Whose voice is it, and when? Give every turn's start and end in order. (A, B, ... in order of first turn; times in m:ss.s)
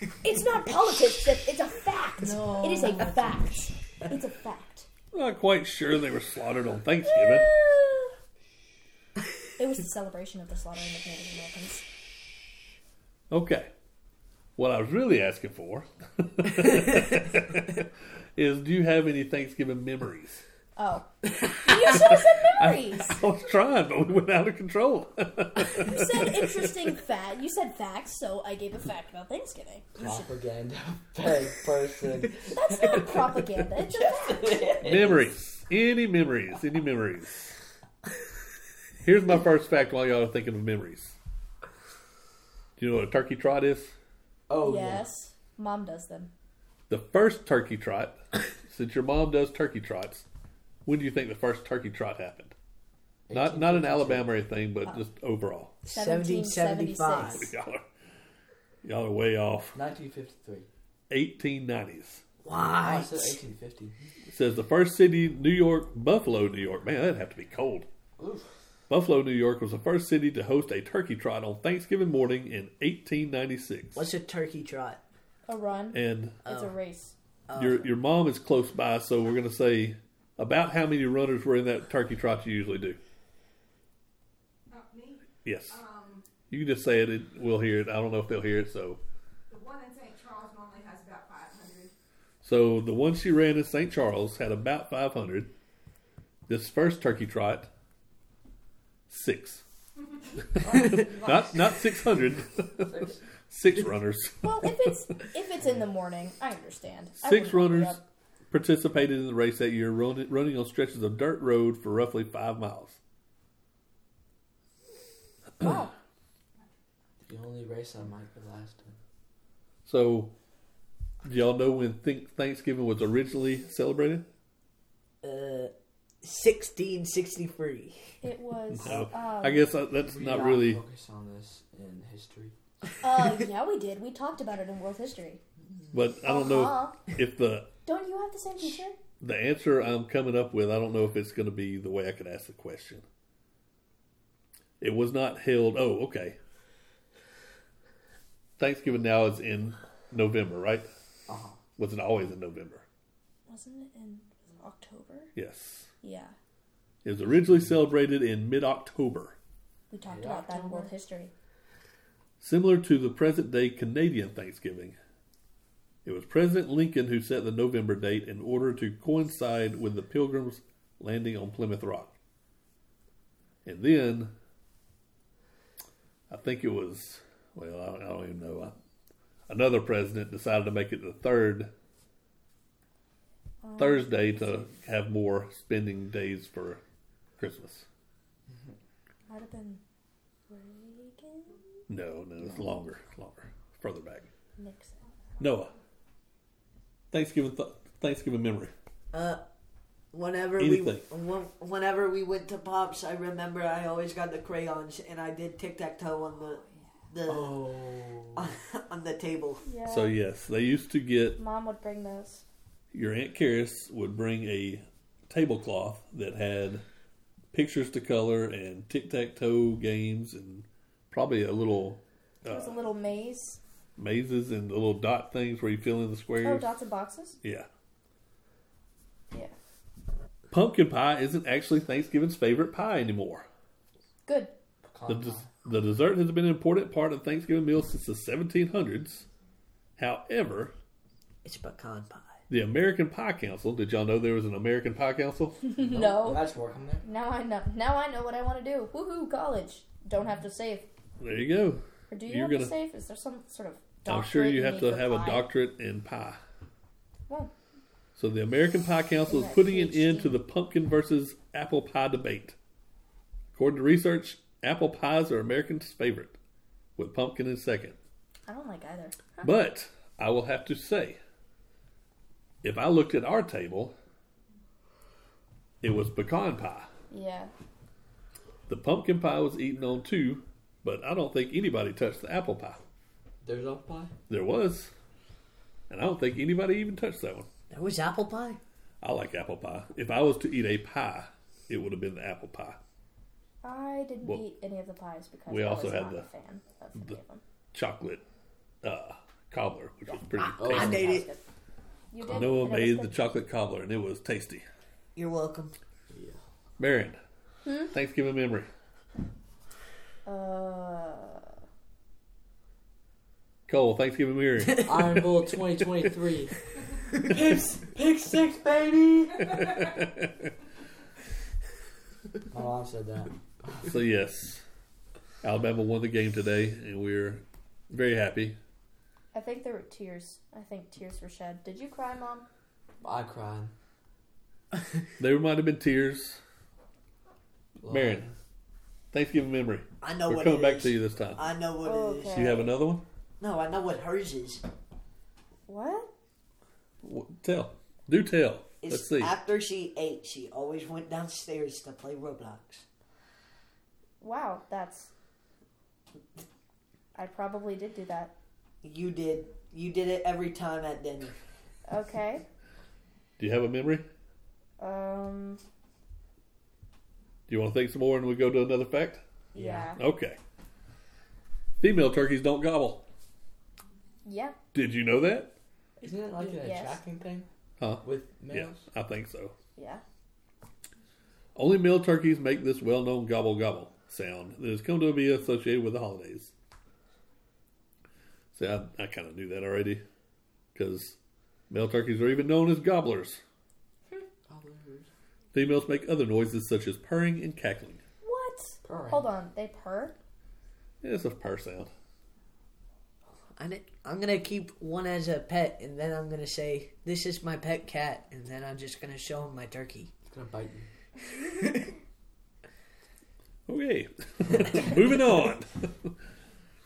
0:00.2-0:04.9 A
0:02.2-0:03.4 B
0:05.1-0:07.5 C
0:07.1-0:08.1 A
0:09.6-0:11.8 A
0:13.3-0:13.7 C
0:14.6-0:20.4 C
0:20.8-0:23.2 A
0:21.9-0:26.9 C
0:25.7-0:30.2 A
0:30.0-0:35.3 B
0:32.5-0:34.7 A
0:34.8-0:37.5 C
0:39.0-0:41.2 C
0:42.8-0:44.0 C
0:44.5-0:45.1 B
0:44.6-0:46.3 A
0:46.9-0:50.3 C
0:50.9-0:52.5 C
0:53.3-0:54.3 B
0:53.3-0:55.7 C
0:55.8-0:57.5 D
0:55.9-0:57.5 A
0:57.2-0:57.8 C
0:58.8-0:59.8 C
0:59.7-1:00.7 B
1:01.1-1:02.2 C
1:02.4-1:03.4 D
1:02.8-1:04.1 B
1:04.3-1:07.9 C
1:08.2-1:08.5 B
1:08.9-1:14.1 C
1:14.0-1:15.0 D
1:15.5-1:17.2 A
1:15.9-1:16.4 C
1:16.5-1:16.7 D
1:17.5-1:17.9 D
1:17.6-1:23.0 C
1:25.4-1:25.9 C
1:26.5-1:29.0 C
1:29.5-1:31.9 E
1:32.4-1:35.5 C
1:36.5-1:37.7 C
1:39.1-1:39.6 C
1:40.4-1:44.9 C
1:40.6-1:41.3 B
1:42.9-1:43.2 B
1:44.4-1:48.0 A
1:47.2-1:48.0 C
1:48.5-1:53.0 C
1:55.6-1:55.9 A
1:57.3-1:59.0 B
1:59.9-2:00.3 C
2:01.2-2:04.2 C
2:05.2-2:08.2 D
2:08.2-2:09.6 A
2:08.7-2:10.8 C
2:10.1-2:12.9 B
2:13.0-2:15.4 A
2:15.9-2:17.7 C
2:16.2-2:17.0 A
2:17.8-2:19.0 A
2:19.2-2:23.0 C
2:24.8-2:26.4 C
2:28.6-2:30.9 C
2:31.3-2:31.6 B
2:31.8-2:32.8 C
2:33.5-2:35.3 A
2:35.4-2:35.9 C
2:36.0-2:36.4 A
2:37.0-2:39.4 C
2:39.9-2:41.3 A
2:40.0-2:40.9 B
2:42.4-2:45.0 C
2:46.0-2:52.2 C
2:53.6-2:54.3 C
2:56.3-2:58.8 C
2:59.5-3:01.7 C
3:03.6-3:04.1 A
3:03.8-3:06.8 C
3:07.4-3:07.9 C
3:09.3-3:09.8 A
3:10.5-3:11.8 A
3:11.9-3:14.3 C
3:14.6-3:15.0 A
3:15.4-3:15.7 C
3:17.1-3:18.7 C
3:19.1-3:19.4 D
3:20.1-3:27.6 D
3:20.6-3:21.0 C
3:27.3-3:28.5 B
3:28.4-3:29.6 D
3:29.6-3:30.1 A
3:29.9-3:31.4 C
3:31.4-3:32.4 A
3:32.9-3:36.8 C
3:37.5-3:42.8 C
3:42.4-3:43.6 A
3:44.0-3:46.7 C
3:46.4-3:47.4 A
3:47.4-3:47.7 C
3:50.5-3:53.5 C
3:54.3-3:54.5 A
3:54.8-3:55.5 B
3:55.1-3:59.3 C
4:00.0-4:00.7 C
4:01.4-4:02.4 D
4:02.5-4:05.6 C
4:05.6-4:06.5 A
4:05.8-4:07.0 B
4:07.0-4:10.9 A
4:11.2-4:12.7 C
4:12.1-4:15.5 A
4:14.1-4:16.4 C
4:18.2-4:22.6 C
4:19.3-4:20.4 A
4:23.5-4:26.4 C
4:27.0-4:28.0 C
4:28.5-4:29.5 A
4:29.4-4:31.2 C
4:32.6-4:33.9 C
4:35.8-4:36.9 C
4:37.1-4:37.5 A
4:38.7-4:42.8 C
4:43.4-4:44.1 B
4:44.3-4:44.9 C
4:45.9-4:47.5 C
4:47.7-4:48.6 D
4:49.0-4:52.8 C
4:53.6-4:57.4 A
4:55.5-4:56.2 C
4:57.7-4:58.2 C
4:58.8-5:01.1 C
5:00.1-5:01.4 A
5:00.4-5:01.3 D
5:00.6-5:01.2 B
5:02.1-5:03.2 A
5:02.2-5:04.6 C
5:05.2-5:05.8 D
5:06.1-5:06.4 B
5:06.8-5:07.2 C
5:07.6-5:07.9 A
5:07.9-5:08.7 C
5:10.2-5:11.5 A
5:13.7-5:15.3 C
5:14.8-5:20.0 B
5:19.7-5:20.5 C
5:22.5-5:23.9 B
5:23.8-5:24.6 C
5:25.4-5:28.6 C
5:29.3-5:32.5 A
5:33.0-5:33.7 B
5:35.2-5:36.4 C
5:37.8-5:38.3 B
5:37.9-5:38.3 C
5:39.1-5:41.4 C
5:40.0-5:42.6 D
5:41.8-5:42.7 A
5:42.3-5:43.0 C
5:43.4-5:44.6 D
5:45.7-5:46.1 A
5:47.0-5:49.4 C
5:48.8-5:52.8 D
5:54.2-5:55.1 A
5:57.2-5:58.3 A
5:58.8-6:01.4 D
6:01.9-6:02.4 A
6:03.4-6:04.1 C
6:04.8-6:05.6 A
6:07.5-6:09.2 C
6:09.5-6:10.0 A
6:09.6-6:09.9 B
6:10.0-6:10.4 C
6:11.8-6:13.0 C
6:14.2-6:14.6 A
6:14.7-6:15.5 C
6:16.0-6:17.5 B
6:16.1-6:17.0 A
6:17.8-6:19.5 C
6:18.0-6:18.8 B
6:19.8-6:20.0 A
6:21.6-6:26.5 C
6:28.5-6:30.0 C
6:30.7-6:31.2 C
6:31.7-6:33.4 C
6:34.5-6:35.1 B
6:35.5-6:38.0 C
6:38.2-6:40.2 A
6:38.8-6:39.3 B
6:41.0-6:41.9 C
6:43.6-6:50.1 D
6:50.3-6:50.9 B
6:53.7-6:56.1 C